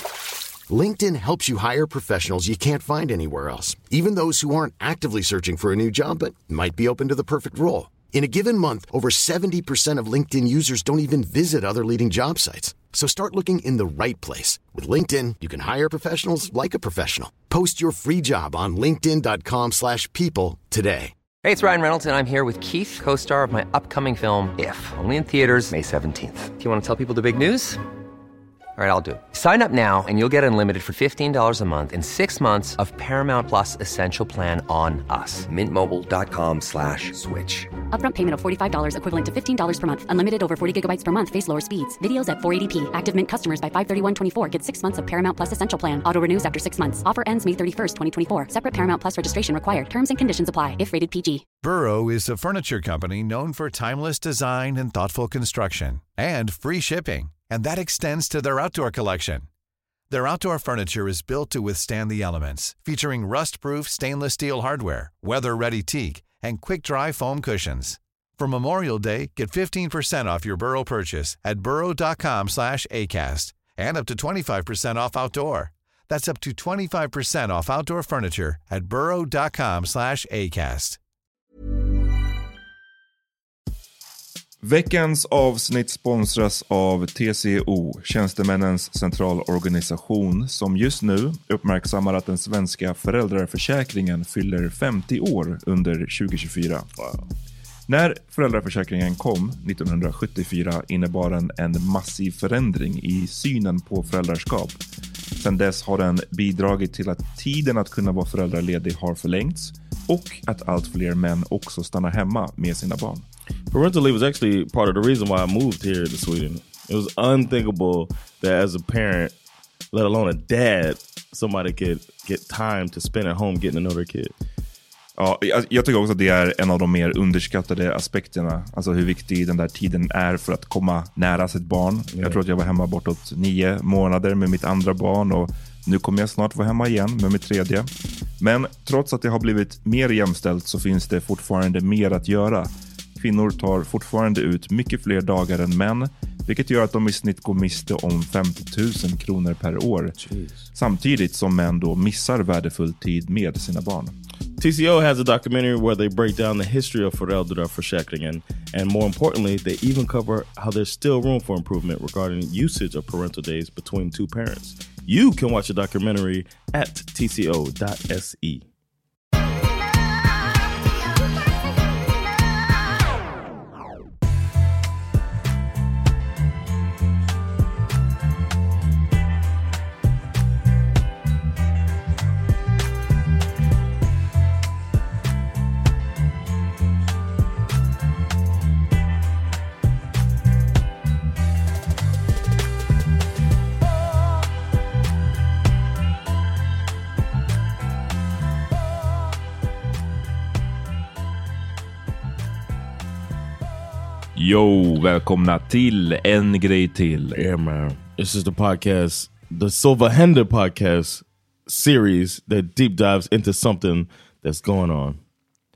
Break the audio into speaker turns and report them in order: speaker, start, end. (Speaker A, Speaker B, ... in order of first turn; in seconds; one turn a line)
Speaker A: 0.7-21.1
Speaker B: 21.4-27.8
Speaker B: 28.8-37.7
Speaker C: 37.9-51.4
Speaker D: 51.6-59.5
Speaker D: 60.1-81.0
Speaker E: 84.6-96.9
Speaker F: 97.0-97.2
Speaker E: 97.9-104.8
Speaker E: 105.4-113.2
Speaker F: 113.7-119.3
Speaker F: 119.9-124.3
Speaker E: 125.2-137.9
Speaker F: 132.1-132.4
Speaker E: 138.4-150.2
Speaker E: 150.7-154.1
Speaker F: 154.6-168.7
Speaker E: 204.3-207.4
Speaker F: 207.3-215.2